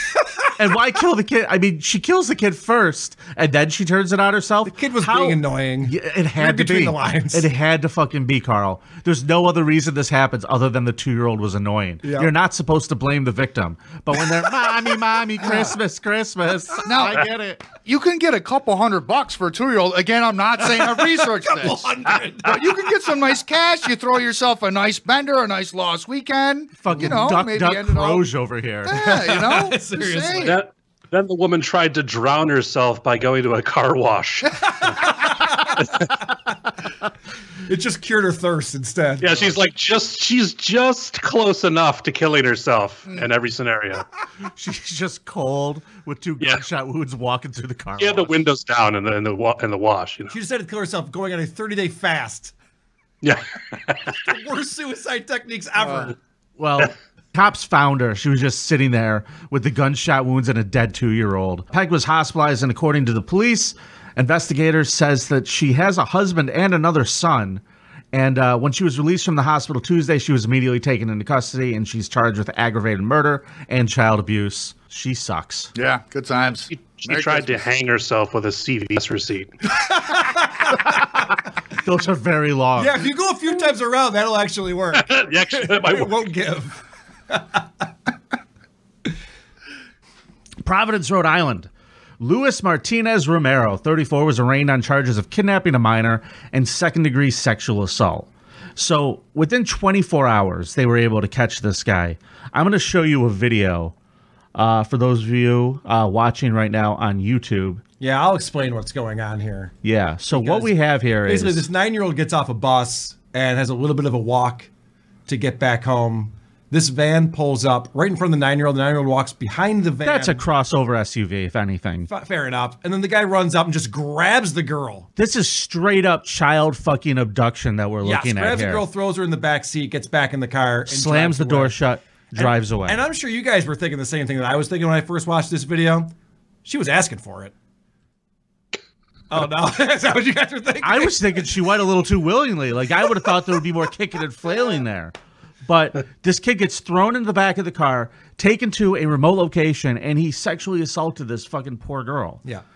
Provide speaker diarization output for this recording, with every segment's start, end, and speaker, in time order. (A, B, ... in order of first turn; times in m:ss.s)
0:00.6-0:17.6 A
0:04.6-0:07.5 B
0:12.0-0:12.3 B
0:15.4-0:15.7 B
0:16.8-0:17.2 C
0:17.8-0:21.9 C
0:20.7-0:22.8 B
0:22.4-0:28.2 C
0:26.8-0:29.0 A
0:26.9-0:27.2 B
0:28.8-0:30.6 C
0:28.9-0:30.6 B
0:30.4-0:34.5 D
0:34.8-0:35.9 B
0:37.7-0:39.5 B
0:39.2-0:44.0 D
0:44.6-0:48.4 A
0:48.0-0:50.3 D
0:50.3-0:52.5 B
0:53.2-0:54.1 D
0:54.2-0:56.1 B
0:56.6-1:07.6 A
1:08.1-1:15.7 A
1:15.7-1:17.6 C
1:16.7-1:19.5 D
1:19.7-1:21.2 B
1:21.8-1:23.0 A
1:22.8-1:27.6 B
1:24.9-1:26.2 D
1:30.6-1:31.7 A
1:32.2-1:43.9 A
1:44.5-1:47.8 A
1:48.0-1:49.7 B
1:49.8-1:51.6 A
1:50.3-1:54.7 B
1:55.3-2:00.4 B
2:00.0-2:02.1 A
2:02.1-2:05.1 B
2:05.2-2:08.8 A
2:08.0-2:11.8 B
2:10.9-2:13.0 A
2:12.4-2:16.1 B
2:16.6-2:17.5 B
2:19.3-2:21.2 B
2:20.8-2:25.1 A
2:25.6-2:32.4 A